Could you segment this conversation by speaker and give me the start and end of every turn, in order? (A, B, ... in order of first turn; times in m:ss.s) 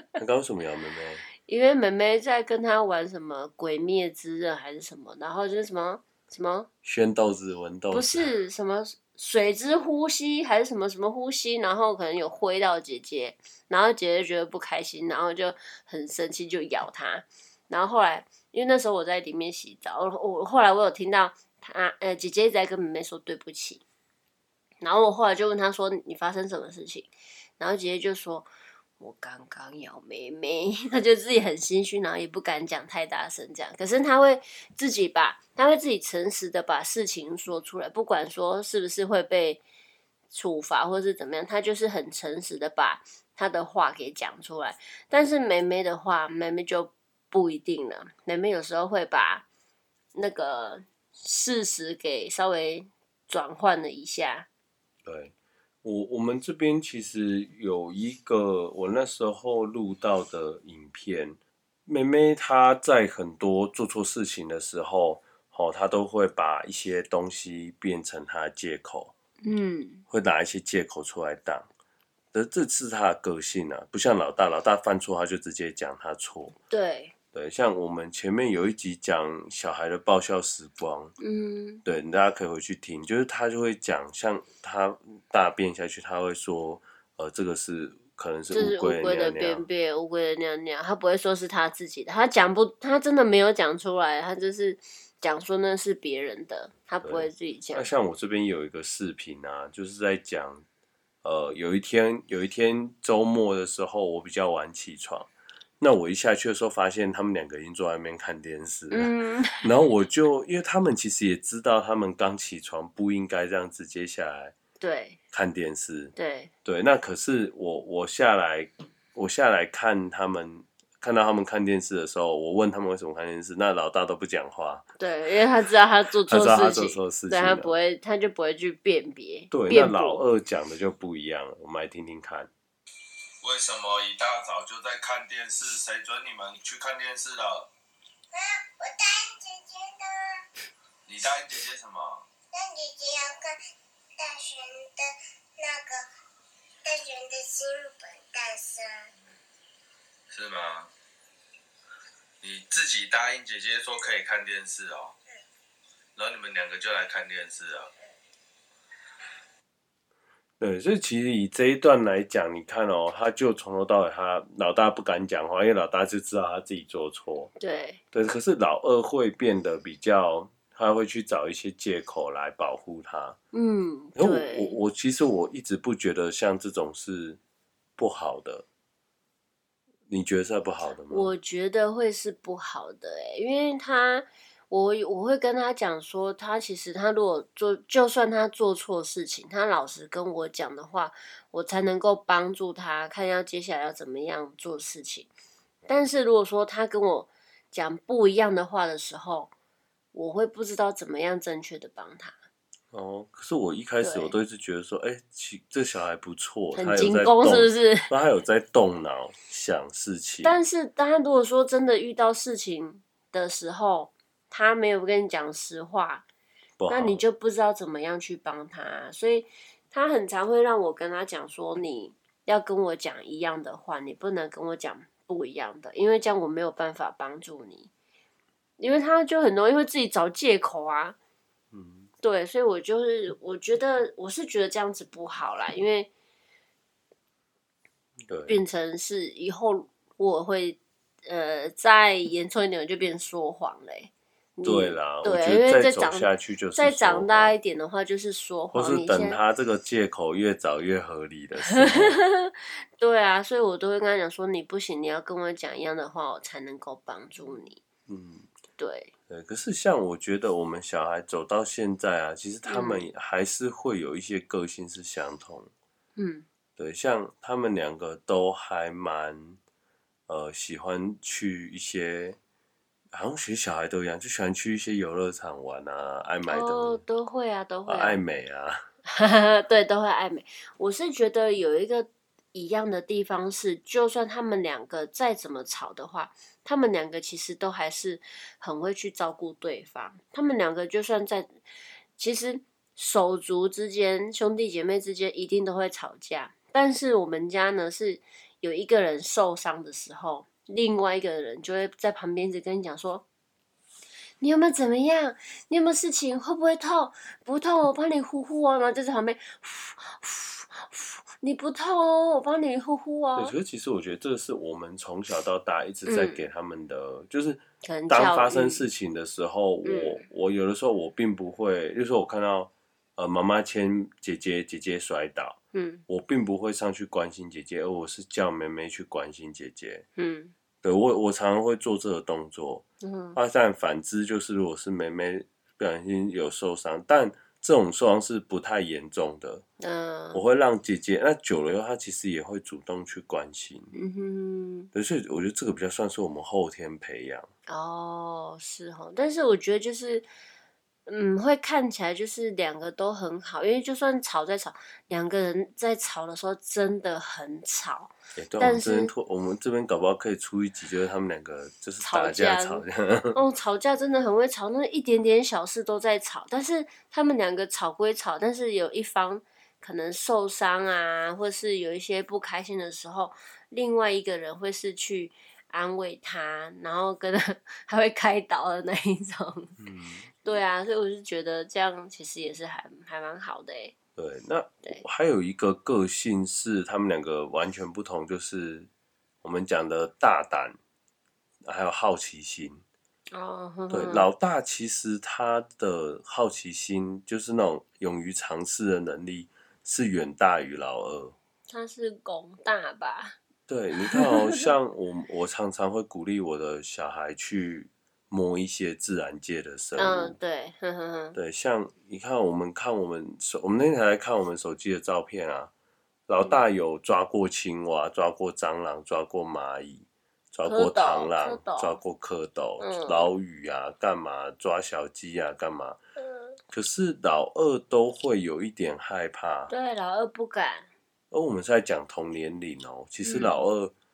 0:00.2-0:01.2 A
0:01.4-0:06.7 B
0:06.8-0:08.3 A
0:07.9-0:23.8 B
0:24.8-0:28.5 B
0:29.0-0:39.6 B
0:40.3-0:49.4 B
0:50.1-0:54.5 B
0:55.0-0:55.3 A
0:55.8-1:09.1 A
1:09.4-1:10.0 B
1:10.1-1:11.7 A
1:12.3-1:16.5 A
1:16.7-1:17.1 B
1:17.3-1:21.1 A
1:21.2-1:21.8 B
1:21.8-1:29.6 A
1:28.5-1:37.9 B
1:37.0-1:40.6 A
1:41.2-1:54.5 A
1:48.9-1:49.7 B
1:54.8-1:55.2 B
1:55.3-2:04.8 A
1:56.2-1:56.5 B
2:05.0-2:10.2 B
2:06.3-2:07.7 A
2:09.5-2:12.5 A
2:13.4-2:17.7 C
2:18.3-2:20.1 D
2:21.0-2:22.2 C
2:22.5-2:23.5 D
2:24.2-2:26.0 D
2:26.8-2:29.0 D
2:30.3-2:30.9 C
2:32.4-2:35.2 C
2:36.2-2:37.9 C
2:40.6-2:47.5 A
2:47.6-2:48.0 B
2:48.1-2:53.4 A
2:53.5-2:54.8 B
2:54.2-2:57.4 A
2:58.0-2:58.6 A
3:00.1-3:01.3 A
3:01.1-3:15.3 B
3:15.9-3:19.5 B
3:20.1-3:22.3 B
3:22.9-3:30.6 A
3:24.0-3:24.3 B
3:26.7-3:28.1 B
3:30.4-3:36.2 B
3:36.8-3:37.2 A
3:36.9-3:47.9 B
3:48.8-3:51.2 B
3:51.7-3:52.1 A
3:52.2-3:56.1 B
3:58.3-3:58.6 A
3:58.5-4:09.4 B
4:04.6-4:07.5 A
4:08.7-4:12.2 A
4:11.6-4:17.8 B
4:18.1-4:18.5 A
4:18.8-4:19.1 B
4:19.3-4:25.7 A
4:22.7-4:23.0 B
4:26.2-4:26.4 B
4:26.8-4:29.6 A
4:30.3-4:32.4 A
4:33.1-4:37.0 A
4:36.5-4:38.2 B
4:37.9-4:38.8 A
4:39.1-4:51.5 B
4:52.2-5:03.2 B
5:04.4-5:13.5 B
5:13.4-5:25.6 A
5:16.0-5:16.4 B
5:17.8-5:18.8 B
5:19.8-5:20.2 B
5:25.7-5:26.0 B
5:26.1-5:30.0 A
5:30.2-5:30.5 B
5:30.8-5:32.8 A
5:33.0-5:33.4 B
5:33.3-5:39.6 A
5:39.8-5:40.4 B
5:40.3-5:43.9 A
5:43.9-5:44.9 B
5:44.9-5:47.5 A
5:47.7-5:50.3 B
5:51.1-5:59.1 B
5:58.4-6:03.4 A
6:02.0-6:19.8 B
6:19.8-6:20.3 A
6:20.4-6:23.9 B
6:24.2-6:28.9 A
6:29.4-6:30.8 A
6:31.6-6:32.8 A
6:33.3-6:34.3 B
6:33.9-6:41.4 A
6:41.7-6:43.4 B
6:43.7-6:50.4 A
6:44.0-6:44.7 B
6:50.0-6:51.4 B
6:51.3-6:55.7 A
6:56.3-7:06.0 A
7:00.6-7:02.0 B
7:02.8-7:03.3 B
7:06.2-7:06.5 B
7:06.7-7:09.7 A
7:09.7-7:10.9 B
7:11.3-7:13.9 A
7:13.2-7:13.6 B